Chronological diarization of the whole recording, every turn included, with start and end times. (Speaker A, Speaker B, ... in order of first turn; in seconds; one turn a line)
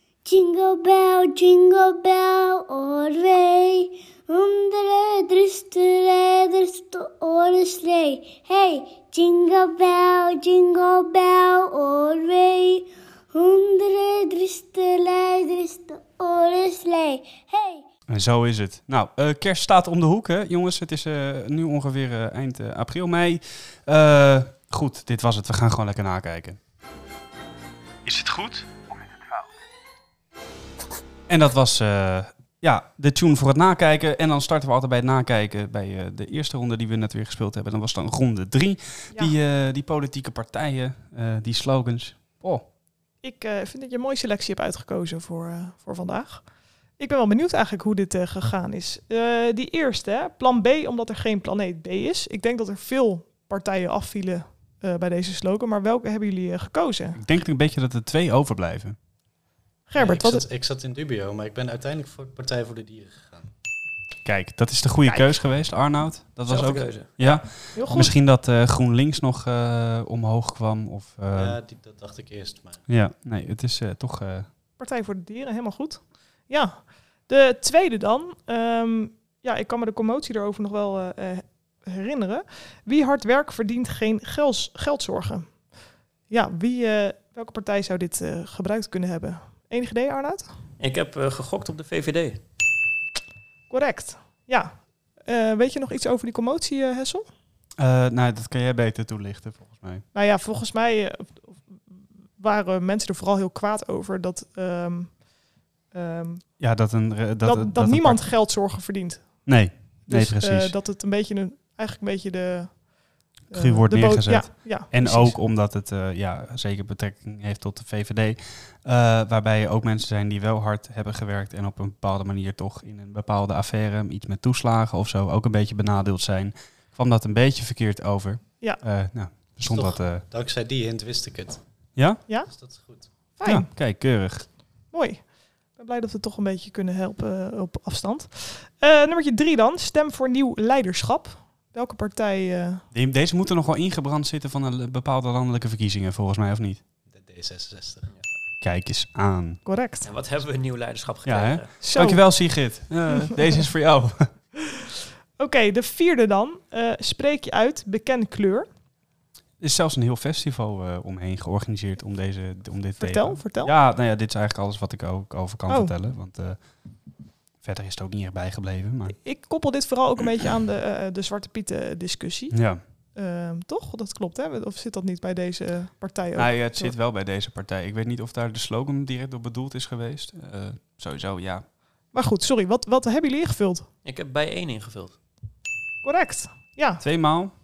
Speaker A: 0.2-17.8
Speaker B: 18.1-26.6
Speaker B: 28.0-29.4
Speaker B: 31.3-42.6
Speaker C: 43.2-57.2
Speaker B: 57.1-59.0
Speaker C: 59.9-60.4
Speaker D: 59.9-63.5
Speaker B: 64.2-71.6
Speaker E: 66.5-67.4
Speaker C: 67.2-68.1
Speaker D: 71.3-72.8
Speaker B: 72.9-74.5
Speaker C: 74.8-85.7
Speaker C: 86.3-90.5
Speaker E: 90.8-92.4
Speaker C: 93.7-97.3
Speaker B: 97.8-100.0
Speaker C: 100.1-101.8
Speaker C: 102.4-105.3
Speaker C: 105.9-106.6
Speaker B: 106.6-108.2
Speaker C: 107.4-115.4
Speaker B: 109.4-110.8
Speaker B: 113.5-130.2
Speaker D: 129.6-131.6
Speaker B: 131.9-132.2
Speaker D: 132.5-133.1
Speaker C: 133.4-133.7
Speaker B: 133.4-134.5
Speaker C: 134.9-142.8
Speaker B: 142.9-146.8
Speaker D: 147.1-148.1
Speaker B: 148.6-149.6
Speaker C: 149.6-150.1
Speaker E: 150.0-151.7
Speaker B: 151.2-154.3
Speaker C: 151.8-152.2
Speaker C: 155.4-158.7
Speaker B: 159.6-166.6
Speaker C: 163.0-163.7
Speaker C: 165.7-165.9
Speaker B: 167.6-169.2
Speaker C: 169.1-172.6
Speaker B: 172.5-172.8
Speaker C: 173.1-176.9
Speaker B: 176.3-181.6
Speaker C: 182.1-183.9
Speaker E: 184.0-185.2
Speaker C: 186.0-187.0
Speaker B: 187.0-187.5